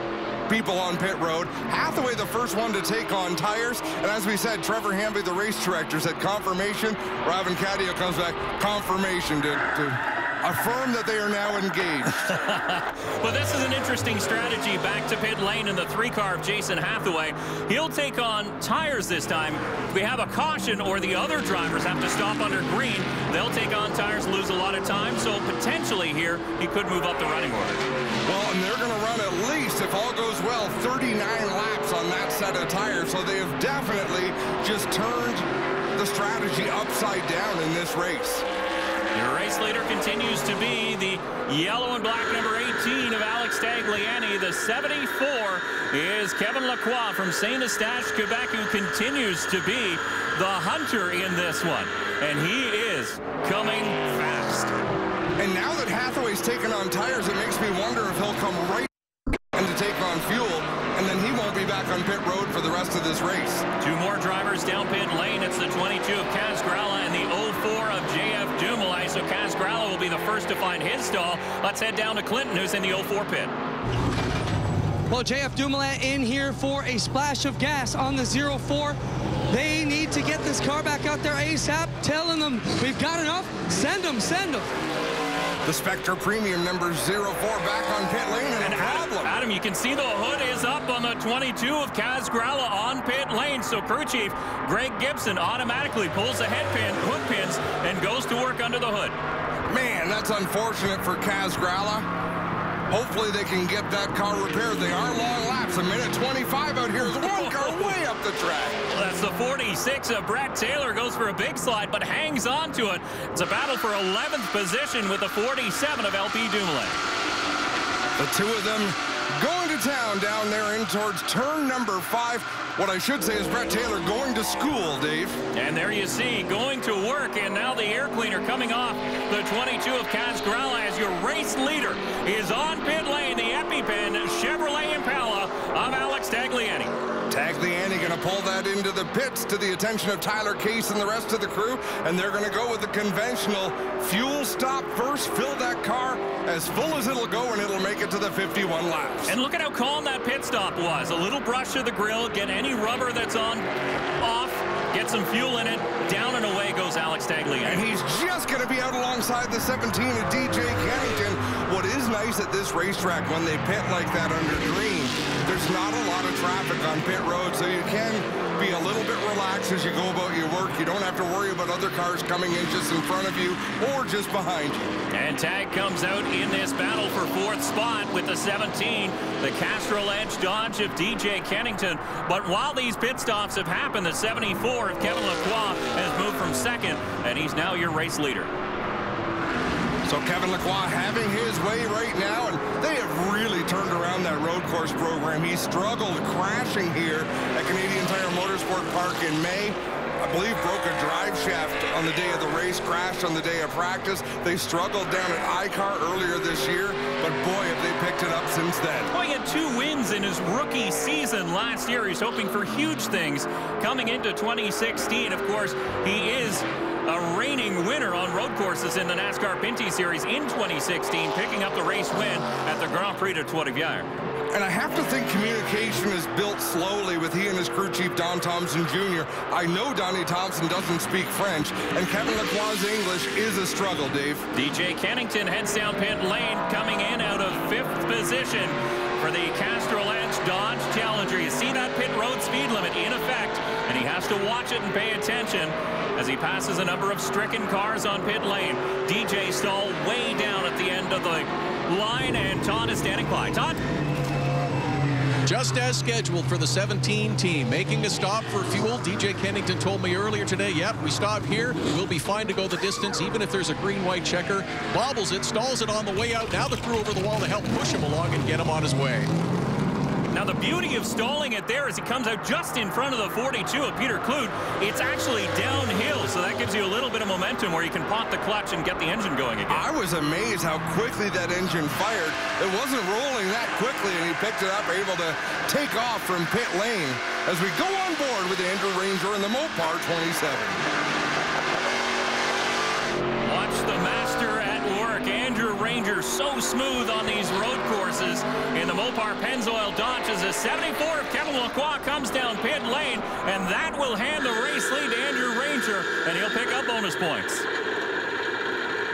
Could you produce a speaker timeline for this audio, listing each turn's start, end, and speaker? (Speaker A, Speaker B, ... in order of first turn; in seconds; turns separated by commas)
Speaker A: 0.5-12.1, Speaker B: 12.1-27.8, Speaker A: 28.2-38.4, Speaker B: 39.1-54.7, Speaker A: 55.4-58.9, Speaker A: 59.5-63.6, Speaker B: 63.8-73.5, Speaker C: 75.1-79.0, Speaker C: 79.5-84.7, Speaker A: 85.6-89.4, Speaker B: 88.6-99.2, Speaker A: 99.7-102.1, Speaker A: 102.9-108.8, Speaker B: 107.0-107.9, Speaker B: 108.9-117.0, Speaker A: 118.2-125.4, Speaker B: 125.5-136.9, Speaker A: 137.3-149.3, Speaker B: 149.2-153.7, Speaker B: 154.2-157.8, Speaker A: 157.6-174.8, Speaker B: 175.1-188.5, Speaker A: 190.1-209.1, Speaker B: 209.1-224.1, Speaker A: 224.5-234.4, Speaker B: 234.5-253.8, Speaker D: 255.4-269.3, Speaker B: 270.3-279.8, Speaker A: 279.7-290.8, Speaker B: 293.4-307.6